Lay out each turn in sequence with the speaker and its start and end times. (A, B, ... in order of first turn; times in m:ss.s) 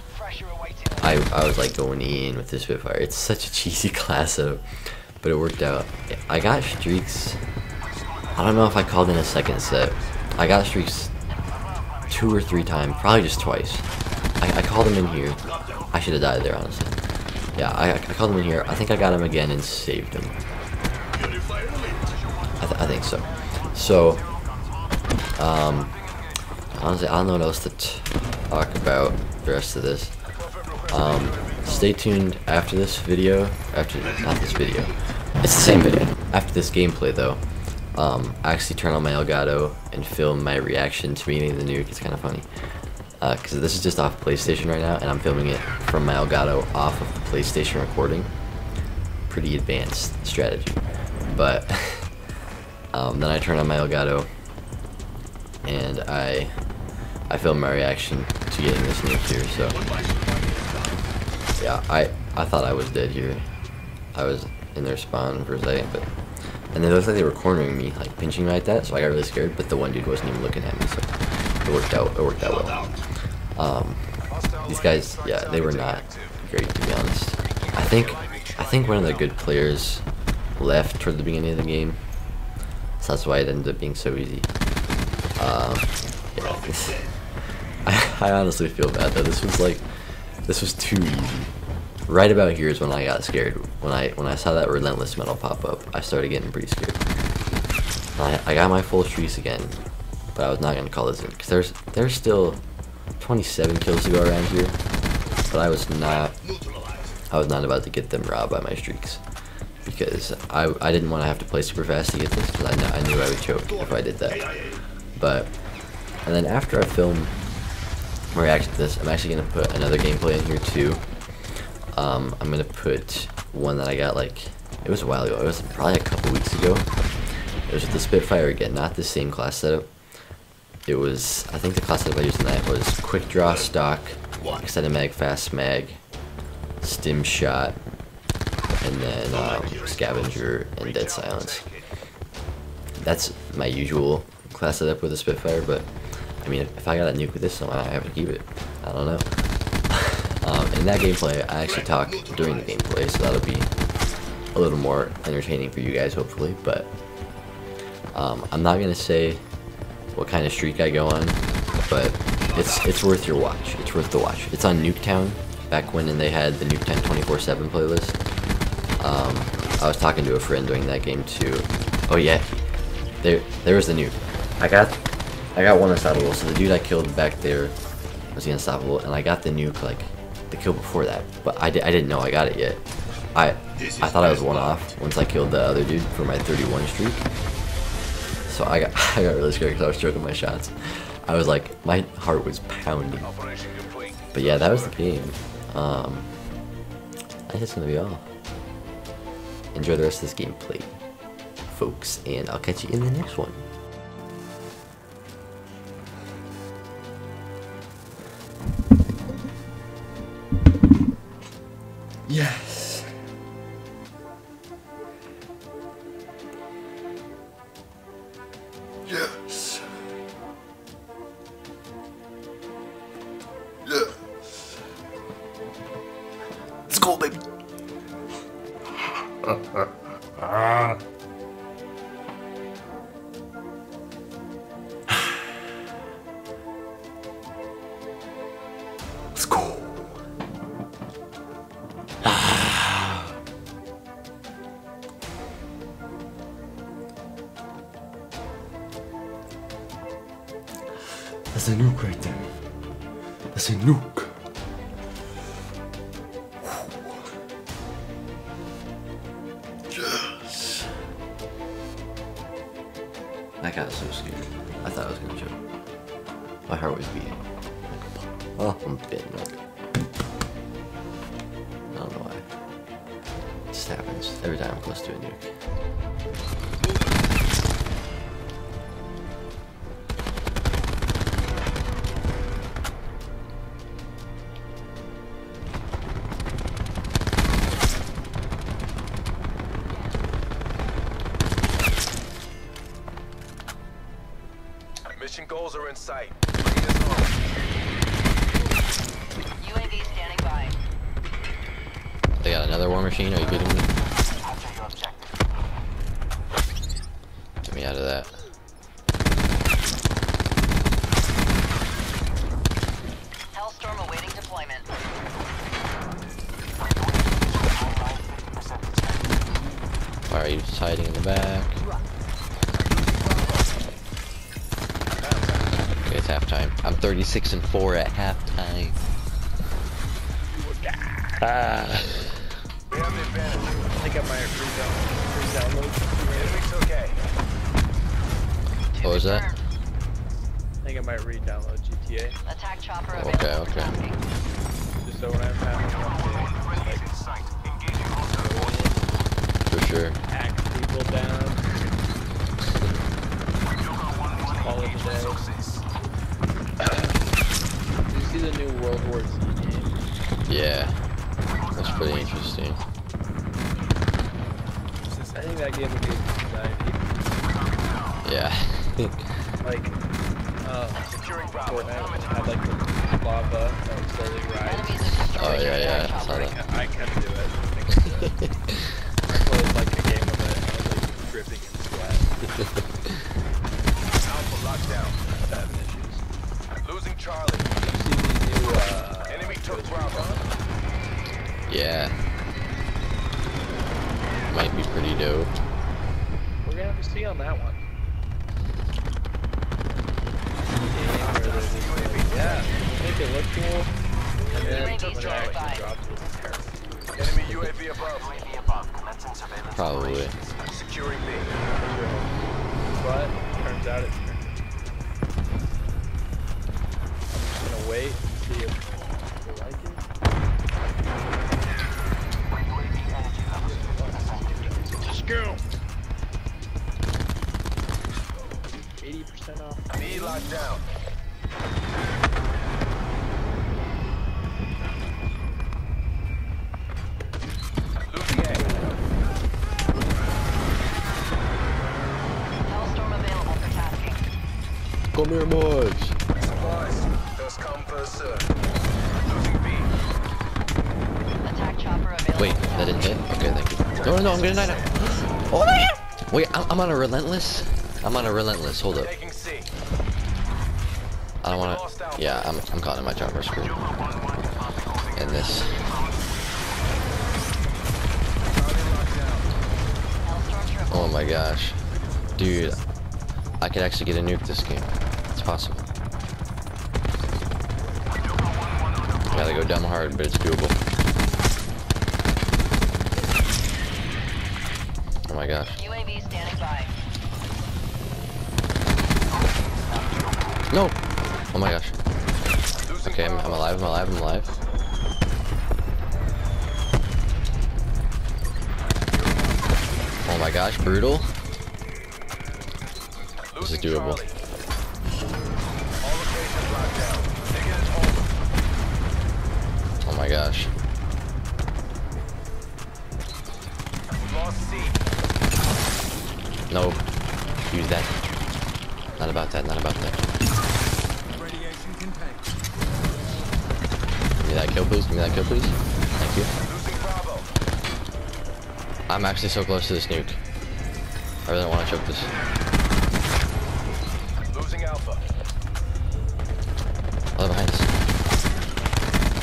0:00.1-0:01.0 A
0:01.0-0:04.6 B
0:05.2-0:07.4 B
0:08.3-0:11.1 B
0:12.1-0:13.9 B
0:14.4-0:17.0 B
0:17.6-0:20.4 B
0:22.6-0:24.2 B
0:25.4-0:26.0 B
0:26.7-0:30.1 B
0:30.5-0:31.6 C
0:30.9-0:37.4 B
0:37.9-0:42.5 B
0:43.2-0:48.3 B
0:49.3-0:50.8 B
0:51.3-0:52.1 B
0:52.9-0:54.3 B
0:55.6-0:56.5 B
0:57.3-0:59.8 B
1:01.6-1:03.4 B
1:04.1-1:06.1 B
1:06.7-1:11.1 B
1:11.6-1:13.0 B
1:13.6-1:14.0 B
1:14.3-1:16.4 C
1:14.6-1:20.0 B
1:17.6-1:19.2 C
1:20.6-1:22.0 B
1:23.0-1:24.5 B
1:25.4-1:27.1 B
1:27.8-1:29.8 B
1:30.4-1:31.5 B
1:32.1-1:37.0 B
1:38.2-1:39.8 B
1:40.3-1:42.6 B
1:43.2-1:44.8 B
1:45.5-1:46.4 B
1:47.3-1:49.2 B
1:49.8-1:54.5 B
1:55.2-1:55.5 B
1:56.2-1:57.3 B
1:58.3-2:01.0 B
2:01.9-2:06.9 B
2:07.7-2:09.9 B
2:10.8-2:16.0 B
2:16.8-2:17.8 B
2:18.8-2:21.7 B
2:20.9-2:21.6 C
2:23.0-2:25.9 B
2:26.4-2:29.3 B
2:29.9-2:33.7 B
2:34.5-2:36.9 B
2:38.1-2:39.4 B
2:40.1-2:48.2 B
2:49.0-2:52.5 B
2:53.2-2:55.0 B
2:55.5-2:57.7 B
2:58.3-3:02.8 B
3:03.3-3:07.3 B
3:08.5-3:13.3 B
3:13.2-3:14.9 C
3:14.3-3:16.3 B
3:17.5-3:18.2 B
3:19.7-3:21.0 B
3:21.7-3:23.7 B
3:32.3-3:33.1 B
3:39.0-3:39.8 B
3:46.9-3:47.4 B
3:59.3-4:00.2 B
4:02.2-4:03.2 B
4:11.0-4:12.5 B
4:13.5-4:14.4 B
4:16.6-4:17.3 B
4:19.9-4:20.9 B
4:23.6-4:25.6 B
4:26.7-4:29.6 B
4:31.9-4:32.4 B
4:33.7-4:35.5 B
4:55.1-4:57.3 C
4:59.6-5:00.8 A
5:02.4-5:03.9 B
5:07.6-5:08.3 B
5:13.5-5:14.9 A
5:20.3-5:21.8 B
5:22.9-5:23.6 C
5:25.2-5:25.8 C
5:26.0-5:29.0 B
5:30.5-5:31.0 D
5:31.4-5:32.3 B
5:32.9-5:33.7 C
5:33.9-5:36.6 D
5:36.4-5:37.2 C
5:38.9-5:39.6 A
5:39.0-5:39.5 B
5:40.8-5:42.4 D
5:42.4-5:44.2 A
5:43.1-5:44.0 B
5:45.0-5:47.3 D
5:48.3-5:49.0 D
5:49.7-5:50.2 B
5:50.3-5:51.9 D
5:54.4-5:55.8 C
5:54.5-5:55.4 D
5:56.8-5:57.1 D
5:58.1-6:00.1 D
6:00.4-6:01.0 B
6:01.7-6:02.8 B
6:05.3-6:07.3 D
6:08.2-6:09.2 B
6:09.6-6:09.9 D
6:10.6-6:18.4 D
6:11.1-6:11.9 C
6:14.6-6:16.4 A
6:15.3-6:16.6 B
6:17.9-6:18.9 B
6:19.2-6:22.3 D
6:22.6-6:23.1 B
6:24.2-6:25.2 C
6:25.4-6:26.2 D
6:26.8-6:27.7 C
6:27.7-6:30.4 D
6:29.3-6:30.3 C
6:31.7-6:32.2 B
6:34.5-6:35.5 B
6:36.6-6:37.8 D
6:40.9-6:43.9 D
6:41.7-6:42.5 C
6:44.5-6:46.8 D
6:44.6-6:45.5 C
6:44.6-6:45.8 A
6:47.2-6:48.5 C
6:49.7-6:50.4 B
6:50.5-6:51.5 C
6:51.6-6:52.3 D
6:52.9-6:54.6 D
6:57.3-7:00.0 D
7:03.6-7:05.6 D
7:09.0-7:10.5 D
7:10.0-7:10.8 C
7:18.1-7:18.8 C
7:22.7-7:24.2 A
7:25.1-7:26.1 B
7:26.4-7:28.5 C
7:29.2-7:29.9 C
7:31.4-7:33.0 A
7:32.3-7:39.1 B
7:33.9-7:34.9 C
7:39.0-7:39.7 C
7:41.4-7:44.0 B
7:41.5-7:42.4 C
7:45.1-7:45.9 B
7:48.6-7:49.4 C
7:50.2-7:51.1 A
7:50.9-7:51.8 B
7:52.4-7:52.8 B
7:53.6-7:55.8 B
7:59.3-8:00.8 B
8:05.3-8:05.8 B
8:05.8-8:06.9 A
8:10.7-8:11.0 B
8:11.5-8:11.9 B
8:12.8-8:13.8 C
8:13.0-8:14.6 B
8:19.1-8:19.7 C
8:20.3-8:21.3 B
8:23.5-8:24.4 C
8:23.6-8:24.2 B
8:26.0-8:28.2 C
8:30.0-8:30.7 B
8:34.1-8:35.0 C
8:36.7-8:37.0 B
8:37.7-8:38.1 B
8:39.2-8:40.3 B
8:44.4-8:46.5 B
8:46.6-8:47.5 C
8:49.1-8:50.4 B
8:51.4-8:52.3 B
8:54.5-8:55.2 C
8:57.4-8:57.9 B